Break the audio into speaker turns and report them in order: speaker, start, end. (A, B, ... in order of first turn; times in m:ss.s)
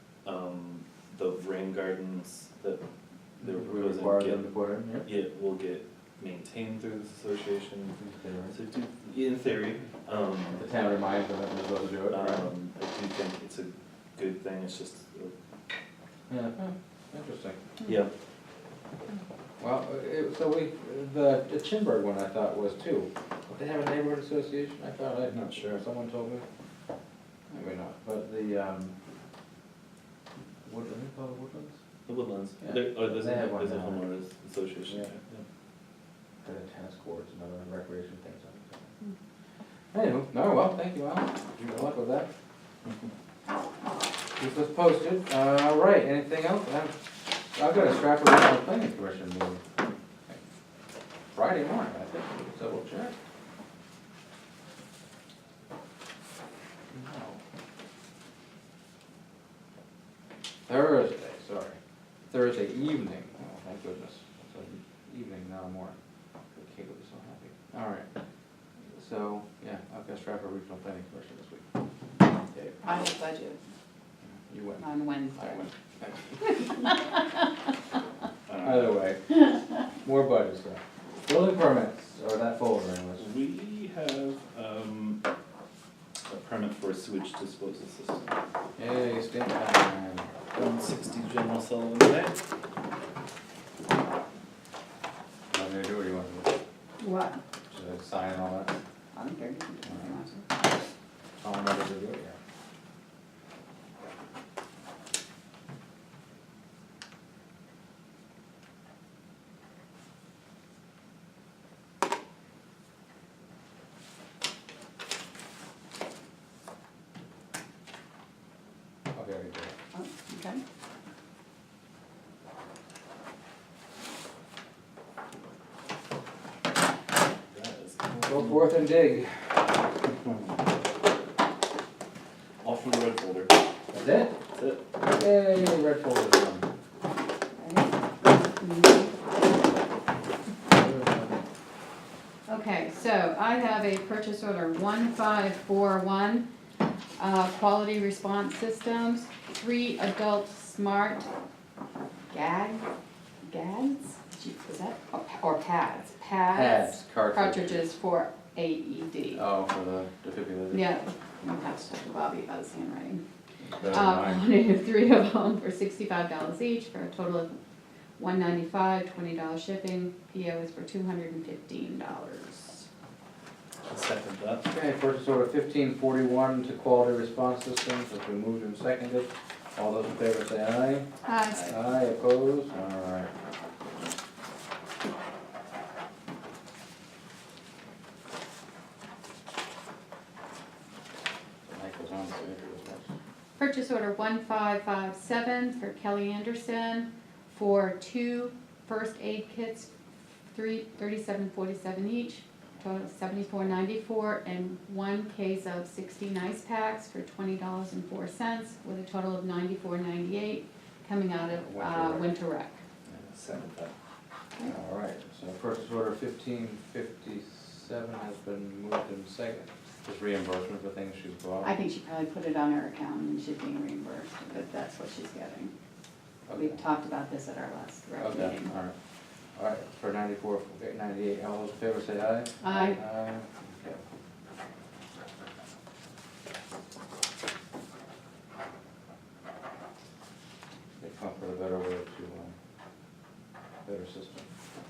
0:00.2-0:02.8 A
0:03.4-0:05.1 B
0:03.4-0:04.5 A
0:05.0-0:08.0 A
0:08.0-0:08.5 B
0:08.5-0:10.7 A
0:10.5-0:12.5 B
0:12.1-0:15.3 A
0:16.3-0:17.6 B
0:17.8-0:18.1 A
0:19.6-0:26.4 B
0:25.3-0:25.8 A
0:27.5-0:28.9 B
0:30.6-0:31.8 B
0:32.0-0:35.4 A
0:32.6-0:34.0 B
0:36.4-0:38.8 B
0:39.9-0:42.3 B
0:44.4-0:46.9 B
0:47.5-0:49.6 B
0:51.3-0:53.1 B
0:56.9-0:57.4 B
1:00.7-1:01.8 B
1:02.3-1:06.0 B
1:06.5-1:08.1 B
1:08.9-1:11.6 B
1:12.8-1:13.6 C
1:14.4-1:16.8 B
1:14.8-1:15.7 C
1:16.4-1:17.4 C
1:18.5-1:18.9 A
1:18.6-1:23.3 B
1:23.2-1:25.2 A
1:26.3-1:28.3 A
1:28.8-1:30.3 B
1:30.5-1:32.4 A
1:35.5-1:36.5 B
1:37.0-1:37.4 C
1:37.7-1:38.7 B
1:39.1-1:40.5 C
1:39.8-1:40.1 B
1:41.4-1:42.4 B
1:59.1-1:59.7 B
1:59.9-2:00.6 C
2:07.5-2:08.9 A
2:08.2-2:09.8 B
2:12.6-2:13.5 A
2:13.9-2:14.3 B
2:14.5-2:14.8 A
2:15.0-2:16.7 B
2:17.6-2:19.2 C
2:20.7-2:21.4 B
2:22.5-2:26.5 C
2:27.2-2:31.3 C
2:32.3-2:32.8 C
2:33.4-2:39.4 C
2:36.5-2:37.8 B
2:39.3-2:40.9 B
2:40.7-2:43.2 C
2:43.6-2:44.4 B
2:43.8-2:47.6 C
2:48.2-2:52.9 C
2:53.8-2:54.7 A
2:54.7-3:01.1 B
3:01.2-3:01.7 C
3:01.6-3:03.3 B
3:11.6-3:13.1 B
3:13.6-3:19.9 C
3:20.5-3:32.8 C
3:31.5-3:32.3 B
3:33.2-3:33.9 A
3:34.6-3:41.7 B
3:41.6-3:45.7 C
3:46.5-3:46.8 B
3:46.5-3:48.7 C
3:48.2-3:48.9 B
3:49.6-3:54.0 B
3:52.6-3:53.0 C
4:01.0-4:02.5 B
4:03.8-4:04.5 B